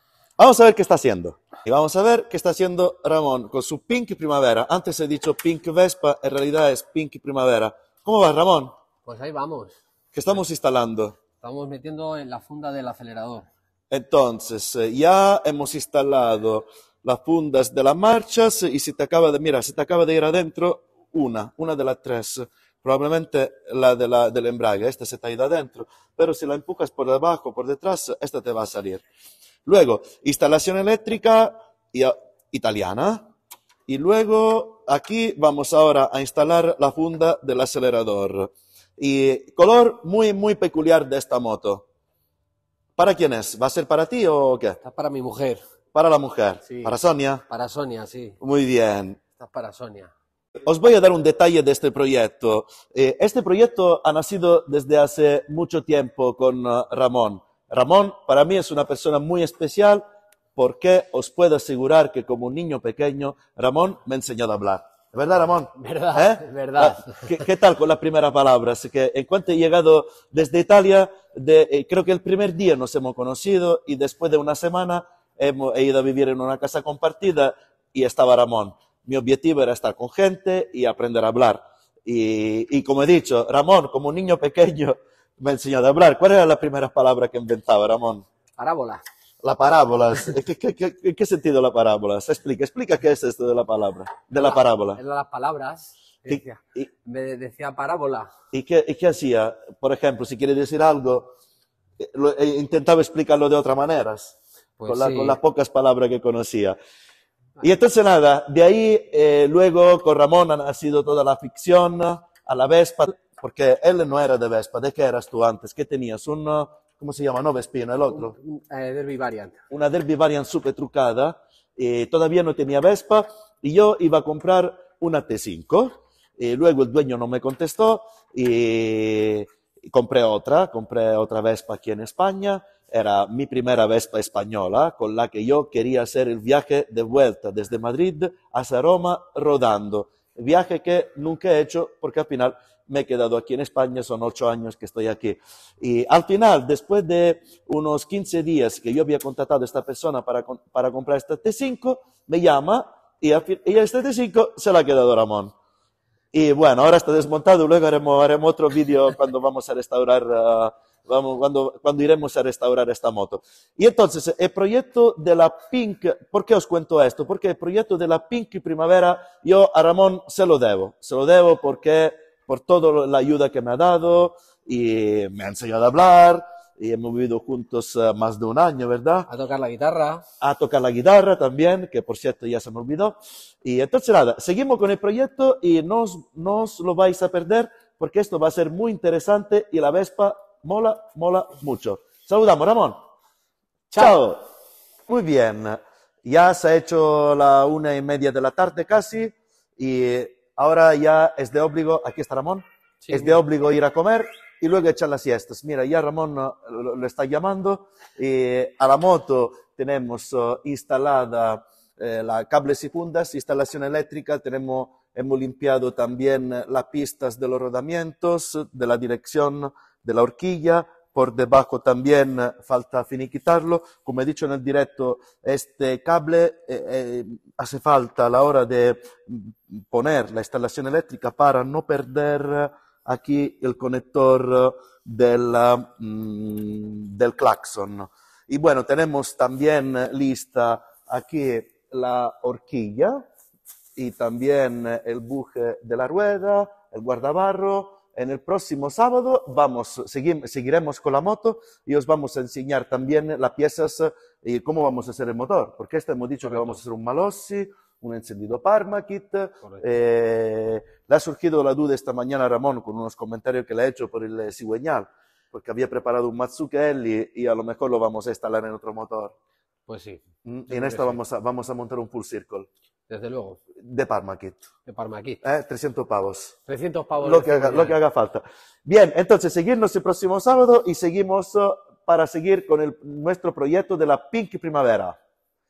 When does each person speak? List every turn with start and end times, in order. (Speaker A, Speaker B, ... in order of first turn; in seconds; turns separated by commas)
Speaker A: 0.4-8.7, Speaker B: 9.0-9.8, Speaker A: 10.1-11.2, Speaker B: 11.4-13.5, Speaker A: 13.9-29.0, Speaker A: 29.6-33.2, Speaker A: 33.9-41.8, Speaker A: 43.0-44.8, Speaker B: 44.8-45.6, Speaker A: 45.9-47.4, Speaker B: 46.7-46.9, Speaker B: 47.5-48.4, Speaker A: 48.4-49.2, Speaker B: 49.4-50.1, Speaker A: 50.6-60.0, Speaker A: 60.5-88.2, Speaker B: 65.7-67.3, Speaker B: 88.6-89.0, Speaker A: 89.4-95.0, Speaker B: 94.3-98.3, Speaker A: 96.3-96.9, Speaker A: 98.5-101.3, Speaker A: 102.0-106.8, Speaker B: 104.8-105.4, Speaker A: 107.6-118.3, Speaker B: 118.1-119.6, Speaker A: 119.7-155.5, Speaker A: 156.3-179.3, Speaker B: 179.3-180.2, Speaker A: 180.4-193.0, Speaker A: 193.9-194.4, Speaker A: 195.1-243.2, Speaker B: 203.0-203.4, Speaker A: 243.9-269.3, Speaker B: 256.4-256.8, Speaker B: 269.9-271.2, Speaker A: 270.4-272.7, Speaker B: 273.1-273.6, Speaker A: 273.8-274.6, Speaker B: 274.9-275.4, Speaker A: 275.4-276.5, Speaker B: 276.7-278.0, Speaker A: 277.2-285.1